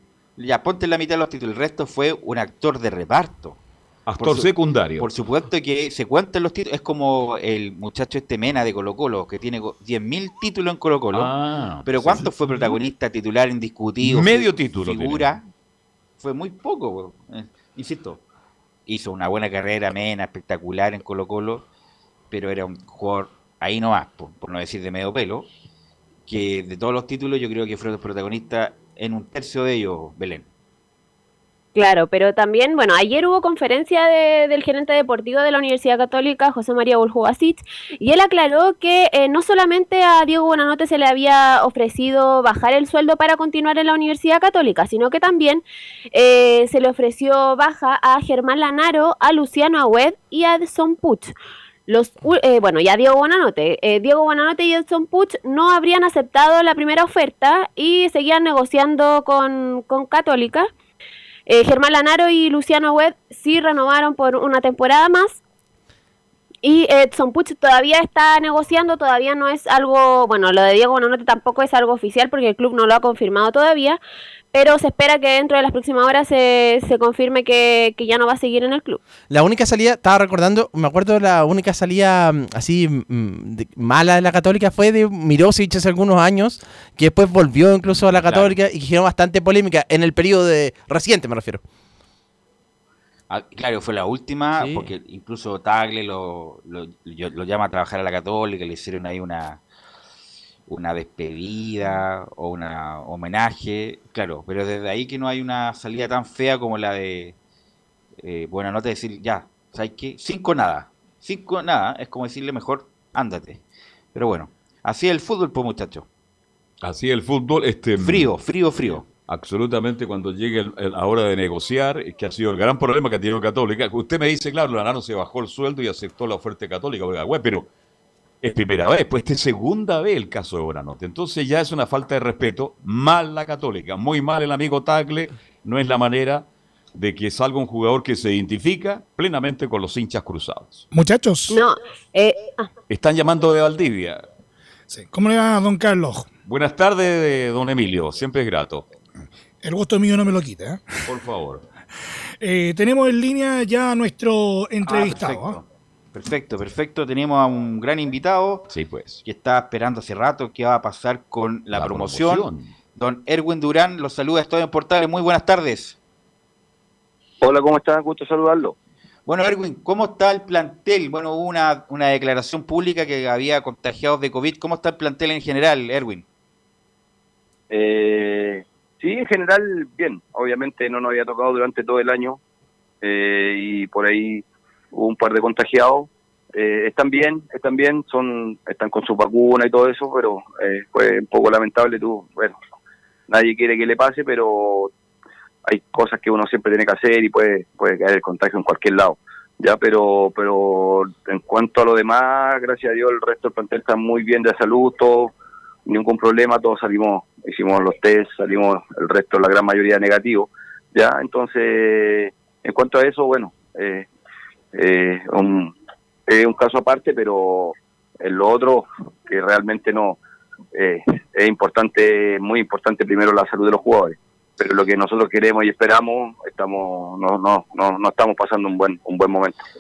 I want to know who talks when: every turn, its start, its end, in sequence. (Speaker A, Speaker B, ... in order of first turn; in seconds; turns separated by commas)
Speaker A: 0.4-3.6, Speaker B: 4.1-5.1, Speaker A: 4.2-11.3, Speaker B: 11.1-12.3, Speaker A: 11.9-15.4, Speaker B: 14.0-15.4, Speaker A: 16.2-18.2, Speaker A: 18.9-21.6, Speaker A: 22.3-25.5, Speaker A: 26.3-30.5, Speaker C: 31.8-51.3, Speaker C: 51.9-60.7, Speaker C: 61.5-65.4, Speaker C: 66.6-74.0, Speaker C: 74.5-79.0, Speaker D: 79.3-91.6, Speaker A: 88.3-88.5, Speaker A: 93.3-99.6, Speaker D: 94.6-94.9, Speaker A: 100.7-107.3, Speaker A: 108.2-113.6, Speaker A: 114.2-116.1, Speaker B: 116.8-118.3, Speaker A: 118.0-119.1, Speaker B: 119.2-127.7, Speaker B: 128.4-140.8, Speaker E: 140.9-141.6, Speaker C: 141.5-142.7, Speaker B: 142.9-144.2, Speaker E: 144.9-146.3, Speaker B: 146.5-148.9, Speaker E: 149.6-150.9, Speaker B: 151.1-151.7, Speaker E: 152.4-155.6, Speaker A: 154.8-158.7, Speaker B: 158.7-159.2, Speaker A: 159.2-166.0, Speaker B: 161.7-162.7, Speaker F: 167.4-168.7, Speaker A: 169.3-176.2, Speaker F: 177.7-182.4, Speaker F: 183.0-192.6, Speaker F: 193.3-194.9, Speaker F: 195.7-205.3, Speaker F: 205.9-214.1, Speaker F: 214.7-215.7, Speaker F: 216.3-220.2, Speaker F: 220.8-229.6